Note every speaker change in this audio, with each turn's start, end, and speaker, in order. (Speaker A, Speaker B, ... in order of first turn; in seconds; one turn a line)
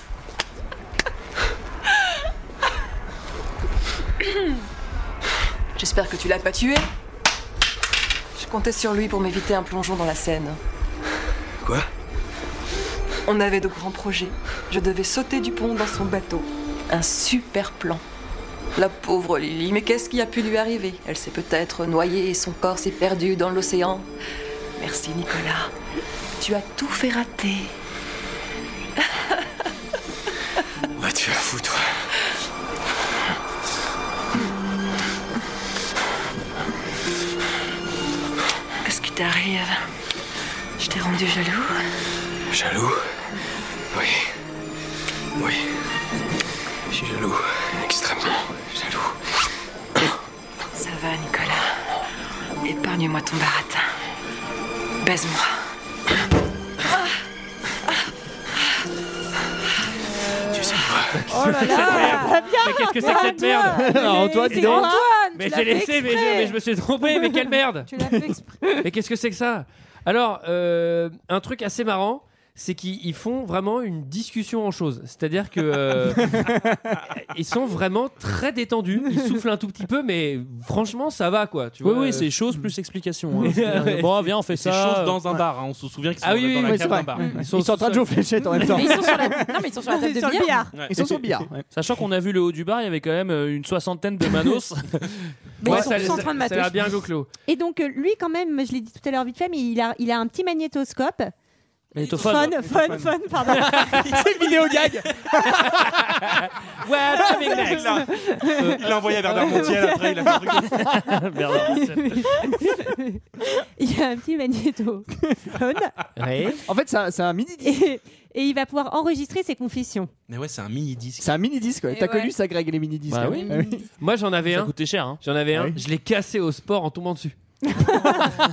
Speaker A: 5.8-6.9
Speaker A: 8.4-10.6
Speaker A: 13.3-18.0
Speaker A: 18.8-24.1
Speaker A: 24.8-25.7
Speaker A: 26.4-27.7
Speaker B: 31.0-31.9
Speaker A: 38.8-39.8
Speaker A: 40.8-41.8
Speaker B: 42.5-43.0
Speaker B: 46.9-48.4
Speaker A: 48.7-49.1
Speaker A: 50.8-51.7
Speaker A: 52.6-53.9
Speaker A: 55.0-55.6
Speaker B: 60.5-61.1
Speaker C: 61.1-64.0
Speaker D: 61.3-66.6
Speaker E: 61.7-65.0
Speaker F: 63.7-64.9
Speaker C: 64.5-67.9
Speaker D: 67.9-68.5
Speaker F: 68.0-68.4
Speaker C: 68.8-76.4
Speaker C: 77.2-82.3
Speaker G: 81.8-85.2
Speaker C: 83.4-84.1
Speaker H: 84.5-87.3
Speaker C: 86.2-88.7
Speaker F: 86.7-91.7
Speaker D: 88.6-90.6
Speaker E: 90.2-90.7
Speaker G: 91.7-95.0
Speaker D: 95.6-97.0
Speaker C: 95.6-97.3
Speaker F: 95.7-95.9
Speaker E: 97.5-101.3
Speaker G: 102.0-102.7
Speaker E: 102.0-104.3
Speaker F: 102.6-103.1
Speaker F: 103.7-106.2
Speaker C: 103.7-104.2
Speaker C: 105.3-107.9
Speaker H: 107.6-111.1
Speaker E: 107.9-108.4
Speaker C: 108.6-109.7
Speaker E: 109.7-110.8
Speaker G: 110.9-112.3
Speaker E: 111.8-115.9
Speaker C: 116.2-116.6
Speaker F: 116.7-117.8
Speaker E: 117.6-120.1
Speaker H: 120.3-121.3
Speaker F: 121.2-123.8
Speaker D: 121.9-122.3
Speaker G: 123.1-123.5
Speaker D: 123.3-123.8
Speaker C: 124.0-127.4
Speaker G: 124.5-125.2
Speaker E: 127.9-128.2